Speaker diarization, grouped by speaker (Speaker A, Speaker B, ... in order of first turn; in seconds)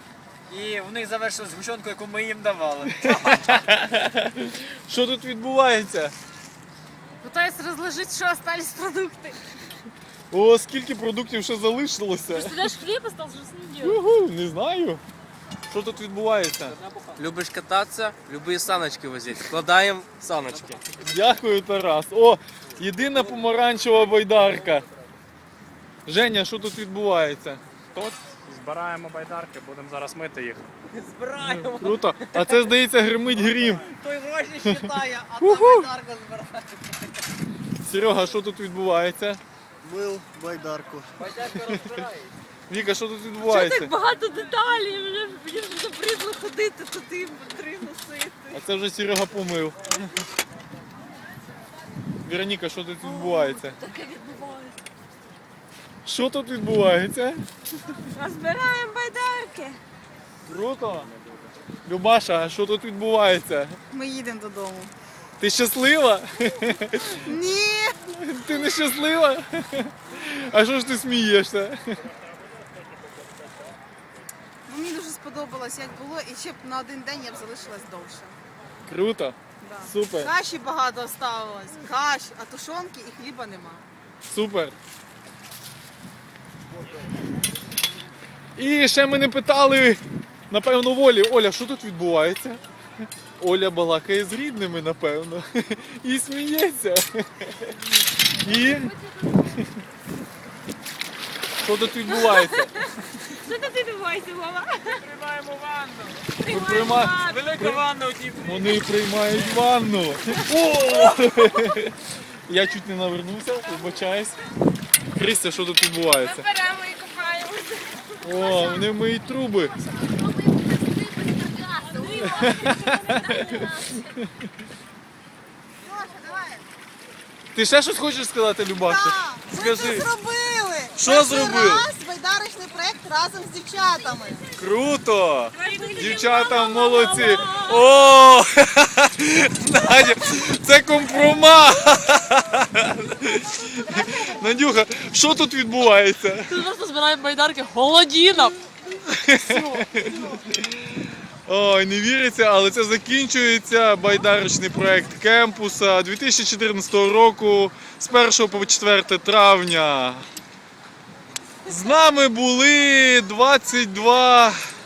Speaker A: 0.5-3.3, 19.5-20.1, 31.0-32.0, 33.6-36.6, 39.8-42.0, 105.1-105.9, 107.3-108.5
Speaker B: 2.9-6.1, 10.3-12.6, 13.8-15.0, 15.7-16.8, 21.0-24.8, 26.1-27.6, 31.4-33.9, 34.6-35.9, 37.8-39.4, 42.7-43.9, 48.5-50.1, 52.2-53.8, 56.0-57.4, 60.5-61.1, 61.9-63.8, 65.4-67.2, 68.1-71.8, 78.8-80.3, 84.3-84.7, 88.5-92.6, 93.4-97.7, 98.4-98.9, 101.6-102.8, 106.5-107.8, 108.4-112.0, 112.5-114.4, 115.1-116.5, 118.2-119.7, 122.2-123.6, 127.5-130.1, 131.0-131.8, 134.6-146.6, 149.1-150.7, 151.4-160.2, 161.7-164.6
Speaker C: 7.3-9.3, 12.3-14.0, 43.4-48.5, 53.0-54.8, 98.5-99.6, 102.0-102.8, 103.3-105.0, 106.4-107.7, 111.1-111.6, 116.2-118.9, 119.8-124.2, 135.6-138.0, 143.9-144.3, 146.4-148.6
Speaker D: 8.3-9.1, 58.1-59.8, 63.9-64.9, 67.2-68.0, 74.7-78.4, 79.6-83.8, 125.8-126.6, 128.8-134.4
Speaker E: 17.1-20.8, 31.0-32.5, 40.3-42.0
Speaker F: 27.9-30.6